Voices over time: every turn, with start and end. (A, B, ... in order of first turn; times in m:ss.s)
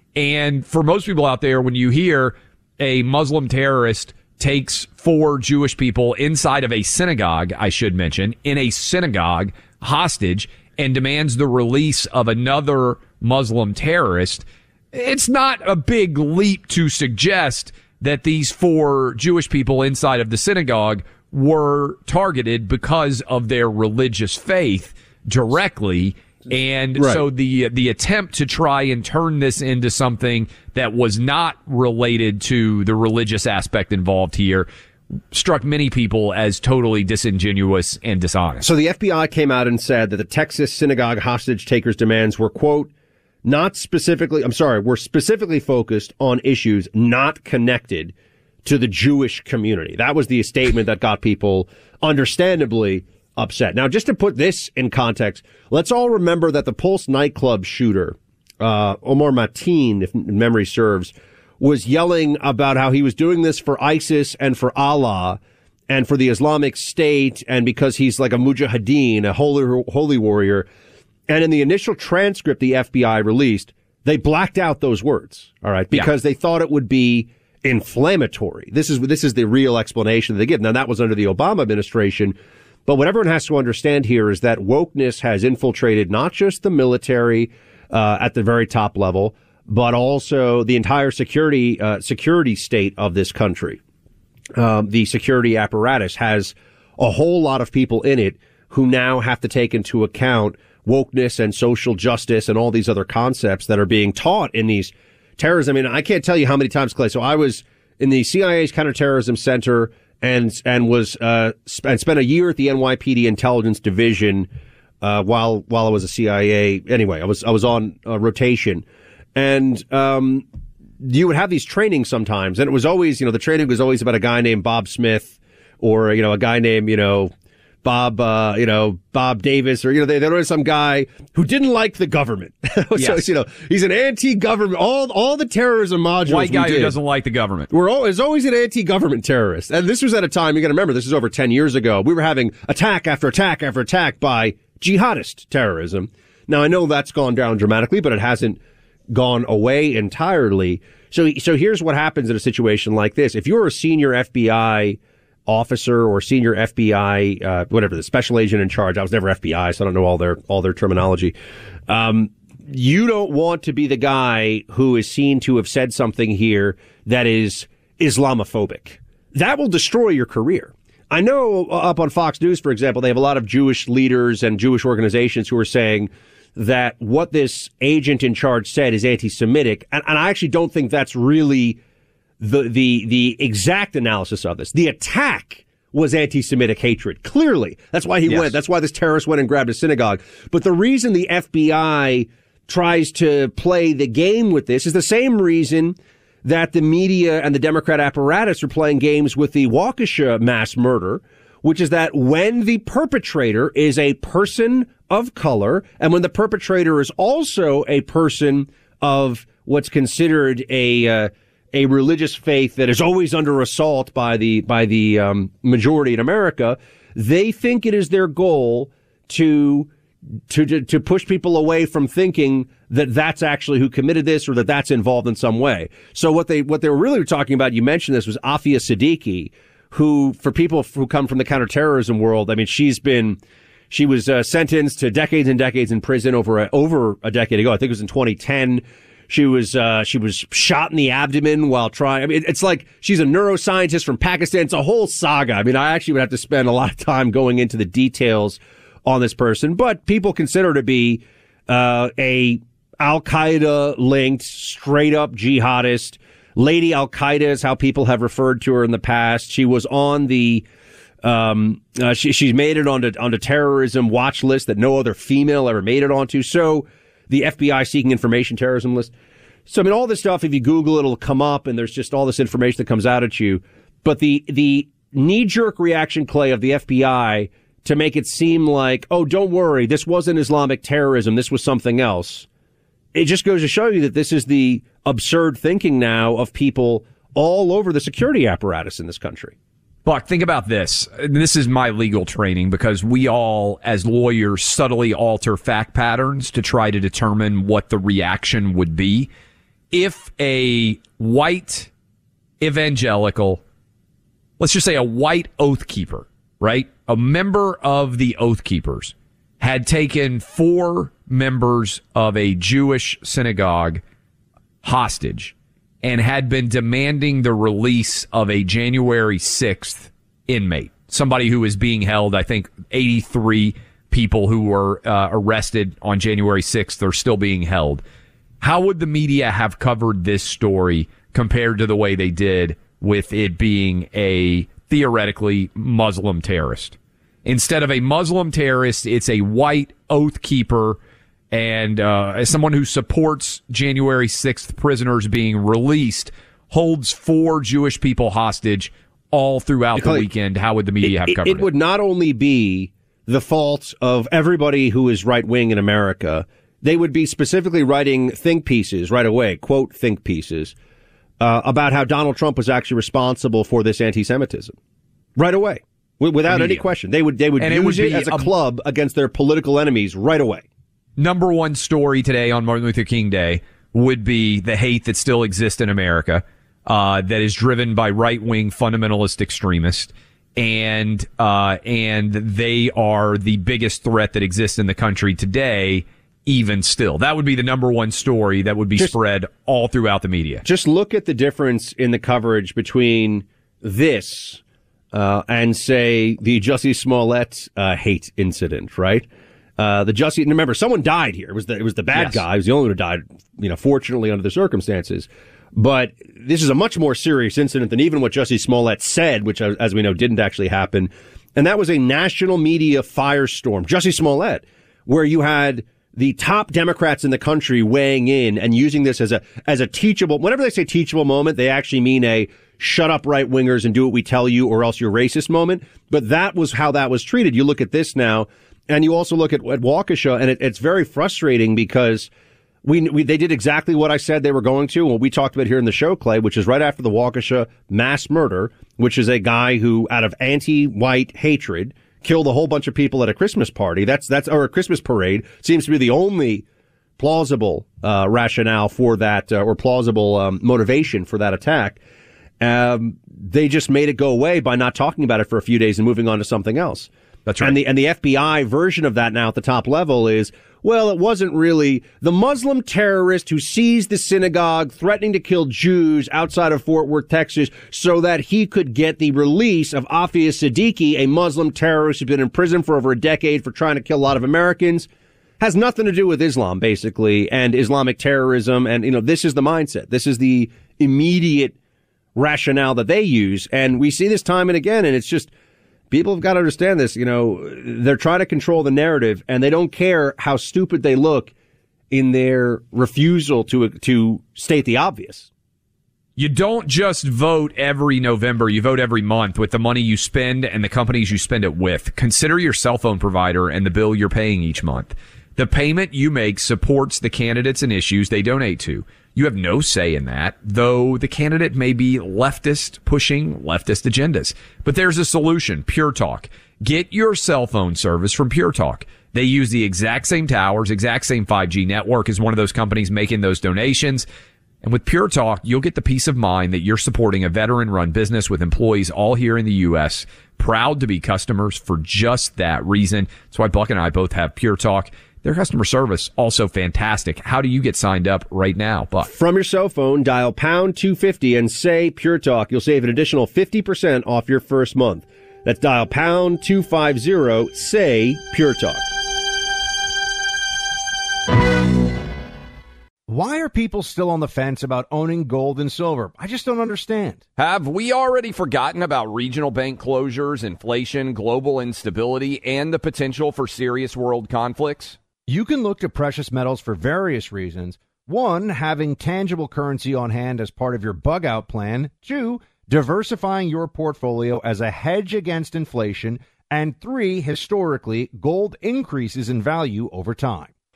0:00.2-0:34.7 A
0:27.0-0:27.2 B
0:35.3-0:38.7 A
0:38.6-0:42.9 B
0:43.4-0:48.1 B
0:48.6-1:10.7 B
1:11.3-1:22.4 B
1:22.9-1:33.8 B
1:34.6-1:54.5 B
1:55.0-1:58.8 B
1:59.4-2:00.4 B
2:01.0-2:07.3 B
2:07.8-2:17.0 B
2:12.9-2:13.2 A
2:16.2-2:17.7 A
2:17.7-2:28.6 B
2:29.1-2:41.4 B
2:41.9-3:01.8 B
3:02.4-3:39.9 B
3:08.3-3:08.6 A
3:40.5-3:53.4 B
3:53.9-4:20.6 B
4:21.2-4:29.1 B
4:29.7-4:42.4 B
4:43.1-4:49.5 B
4:50.0-4:59.3 A
4:59.9-5:01.9 A
5:02.6-5:03.6 A
5:04.6-5:14.0 A
5:14.8-5:28.0 A
5:28.6-5:41.0 A
5:41.5-5:51.7 A
5:50.0-5:50.3 B
5:51.0-6:00.7 B
6:01.4-6:04.8 B
6:05.4-6:10.6 B
6:06.5-6:06.9 A
6:07.6-6:08.5 A
6:11.2-6:30.6 A
6:30.6-6:34.6 B
6:35.1-6:39.2 B
6:39.8-7:12.3 B
6:42.1-6:42.4 A
7:12.8-7:26.6 B
7:27.2-7:32.0 B
7:32.6-7:37.1 B
7:37.4-7:37.8 A
7:37.6-7:55.1 B
7:55.6-8:01.8 B
8:02.4-8:05.5 B
8:06.1-8:11.5 B
8:12.1-8:15.5 B
8:16.4-8:44.2 A
8:44.8-8:59.3 A
8:59.3-9:09.0 B
9:13.3-9:17.4 C
9:17.6-9:25.2 A
9:25.5-9:40.7 C